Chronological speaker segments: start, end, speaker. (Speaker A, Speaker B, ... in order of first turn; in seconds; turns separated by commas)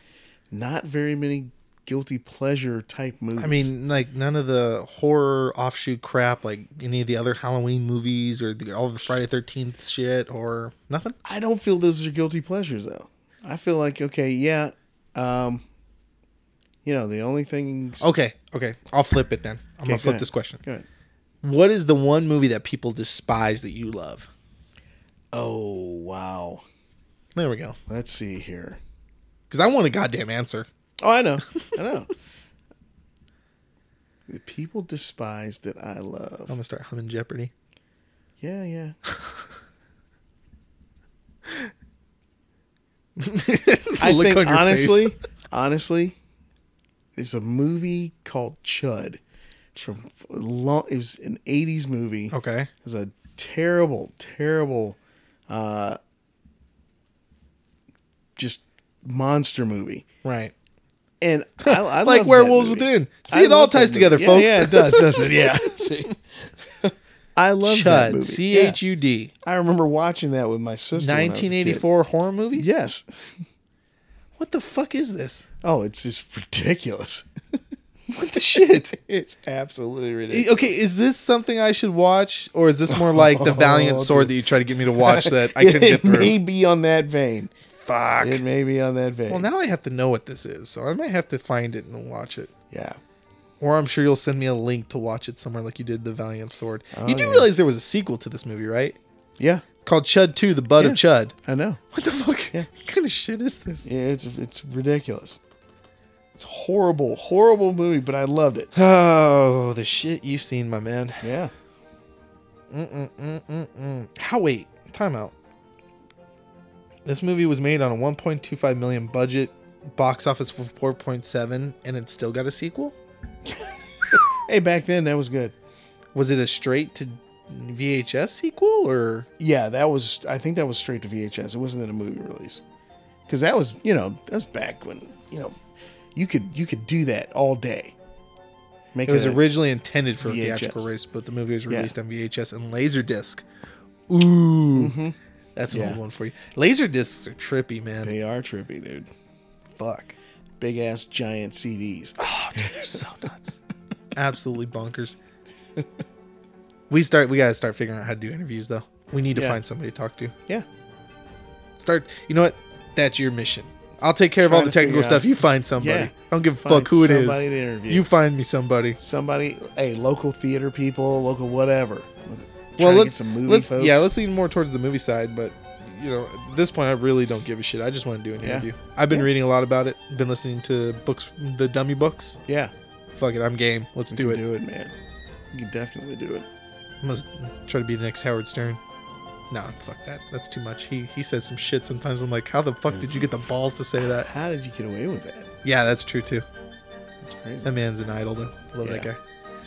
Speaker A: 0.5-3.7, Speaker B: 3.4-11.2, Speaker A: 11.2-15.6, Speaker A: 16.8-18.1, Speaker B: 18.0-20.6, Speaker A: 19.9-20.9, Speaker B: 21.4-24.3, Speaker A: 25.3-26.6, Speaker B: 27.3-27.8, Speaker A: 27.9-28.8, Speaker B: 29.5-30.7, Speaker A: 31.0-32.1, Speaker A: 34.3-36.5, Speaker B: 36.5-37.5, Speaker A: 38.4-39.0, Speaker B: 43.2-45.1, Speaker A: 44.0-46.1, Speaker A: 47.1-49.2, Speaker A: 49.7-55.0, Speaker B: 52.3-52.7, Speaker A: 55.5-56.0, Speaker A: 58.4-60.0, Speaker B: 60.2-60.5, Speaker A: 61.2-68.8, Speaker B: 61.6-66.0, Speaker B: 67.6-69.3, Speaker A: 69.4-71.8, Speaker B: 71.0-72.7, Speaker A: 72.5-73.3, Speaker B: 74.4-75.5, Speaker A: 75.6-77.3, Speaker B: 78.1-79.0, Speaker A: 78.5-80.5, Speaker B: 80.3-86.4, Speaker A: 82.9-87.5, Speaker B: 87.8-88.4, Speaker A: 88.2-89.5, Speaker B: 89.3-92.5, Speaker A: 92.7-93.0, Speaker B: 93.6-99.0, Speaker A: 96.9-97.5, Speaker A: 99.4-99.6, Speaker B: 99.8-101.3, Speaker A: 100.8-101.8, Speaker B: 101.9-103.9, Speaker A: 103.8-105.4, Speaker A: 106.4-108.7, Speaker B: 108.7-111.2, Speaker A: 111.2-111.5, Speaker B: 112.7-115.3, Speaker B: 117.0-123.0, Speaker A: 123.5-125.5, Speaker B: 126.1-129.3, Speaker A: 129.4-132.6, Speaker A: 133.3-135.6, Speaker A: 136.1-137.9, Speaker A: 138.9-139.4, Speaker B: 139.1-143.4, Speaker A: 140.2-140.9, Speaker A: 141.7-141.9, Speaker B: 144.1-144.9, Speaker A: 144.7-145.2, Speaker B: 145.6-148.1, Speaker A: 145.7-146.0, Speaker A: 148.0-149.1, Speaker B: 149.8-150.1, Speaker A: 150.6-152.9, Speaker B: 152.2-153.6, Speaker B: 154.1-155.2, Speaker B: 156.9-160.3, Speaker A: 159.3-159.6, Speaker B: 161.8-169.0, Speaker A: 164.4-168.1, Speaker A: 169.0-174.1, Speaker B: 172.8-182.4, Speaker A: 178.4-179.3, Speaker A: 182.5-182.7, Speaker B: 183.1-184.4, Speaker A: 184.1-184.9, Speaker A: 185.5-186.5, Speaker B: 187.0-188.8, Speaker B: 189.5-194.3, Speaker A: 192.9-193.3, Speaker A: 194.1-195.5, Speaker B: 195.6-196.4, Speaker A: 197.2-197.7, Speaker B: 197.6-199.2, Speaker A: 198.8-199.1